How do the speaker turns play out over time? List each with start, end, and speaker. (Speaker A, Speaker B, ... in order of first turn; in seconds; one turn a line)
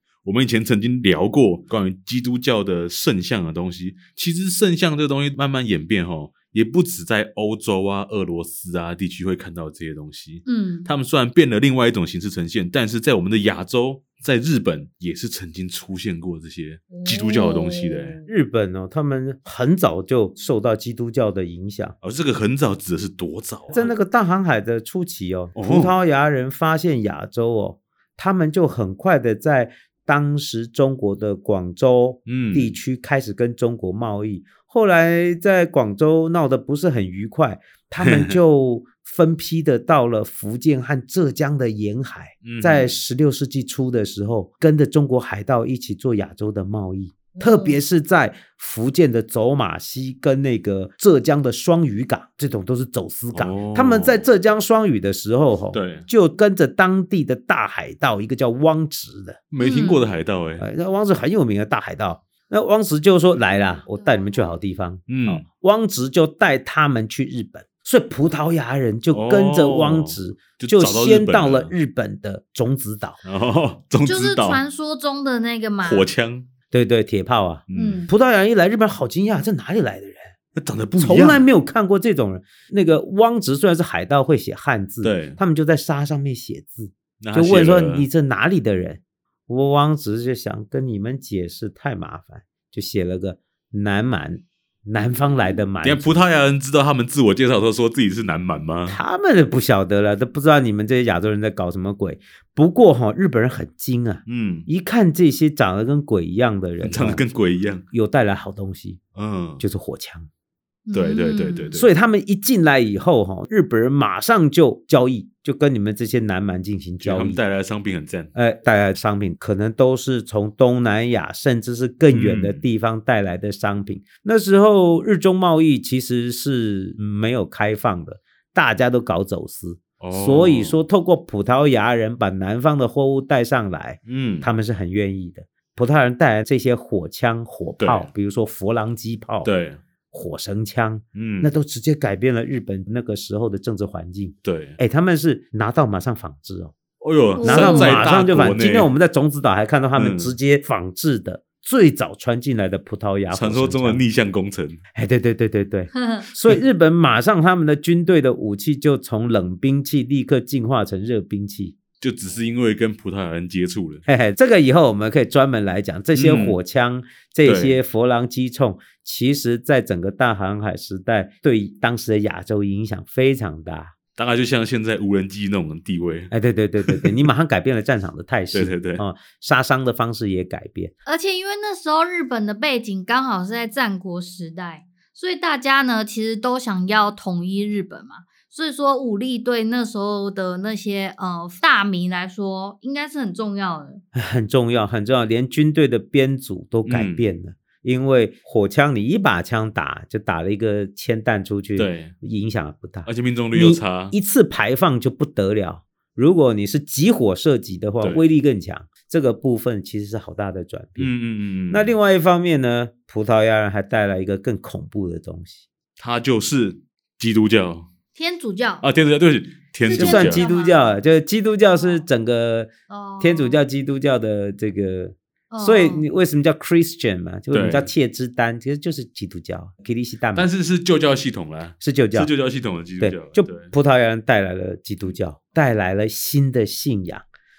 Speaker A: 0.2-18.2
Speaker B: 10.4-10.9
Speaker B: 16.9-18.3
Speaker C: 18.3-21.9
Speaker A: 22.0-23.9
Speaker C: 23.7-59.4
Speaker A: 25.5-25.9
Speaker A: 32.3-32.8
Speaker A: 38.0-38.4
Speaker A: 42.4-43.0
Speaker B: 47.3-47.8
Speaker A: 53.3-54.3
Speaker A: 55.7-56.1
Speaker A: 59.5-60.6
Speaker B: 59.6-60.0
Speaker C: 60.6-73.2
Speaker B: 64.0-64.5
Speaker A: 65.1-65.4
Speaker A: 69.1-71.7
Speaker A: 73.2-74.6
Speaker B: 74.0-76.1
Speaker A: 75.8-76.5
Speaker C: 76.7-80.3
Speaker A: 77.7-78.1
Speaker B: 77.7-78.1
Speaker A: 80.5-81.5
Speaker C: 81.0-96.0
Speaker A: 85.0-85.4
Speaker A: 87.2-88.0
Speaker A: 95.8-99.0
Speaker C: 98.9-107.2
Speaker A: 104.2-104.7
Speaker A: 106.8-107.8
Speaker C: 107.9-109.0
Speaker A: 109.1-109.6
Speaker C: 109.6-110.3
Speaker B: 110.9-111.7
Speaker A: 110.9-111.9
Speaker C: 111.7-117.4
Speaker A: 117.0-118.3
Speaker C: 118.3-139.5
Speaker A: 122.1-122.6
Speaker A: 130.0-130.8
Speaker A: 134.1-134.5
Speaker A: 137.8-138.1
Speaker A: 139.4-139.8
Speaker C: 140.1-146.7
Speaker A: 141.1-141.5
Speaker A: 144.4-144.8
Speaker A: 147.0-148.9
Speaker B: 147.3-148.0
Speaker C: 147.4-154.0
Speaker A: 150.0-150.3
Speaker A: 153.3-154.8
Speaker C: 154.9-161.8
Speaker B: 155.9-156.3
Speaker A: 162.0-164.0
Speaker C: 164.1-173.9
Speaker A: 166.1-166.6
Speaker A: 167.4-167.8
Speaker A: 174.2-176.3
Speaker C: 176.3-180.9
Speaker A: 176.8-177.2
Speaker A: 178.5-179.0
Speaker B: 181.1-194.0
Speaker C: 194.1-211.1
Speaker A: 196.9-197.2
Speaker A: 201.8-202.1
Speaker A: 203.1-204.1
Speaker A: 211.0-211.9
Speaker C: 211.7-215.6
Speaker A: 216.0-217.9
Speaker B: 218.1-218.8
Speaker A: 218.8-220.5
Speaker B: 219.8-221.0
Speaker C: 219.9-230.5
Speaker B: 222.9-223.6
Speaker B: 225.5-226.1
Speaker A: 227.5-227.9
Speaker A: 230.3-233.7
Speaker C: 231.8-232.3
Speaker C: 233.0-237.2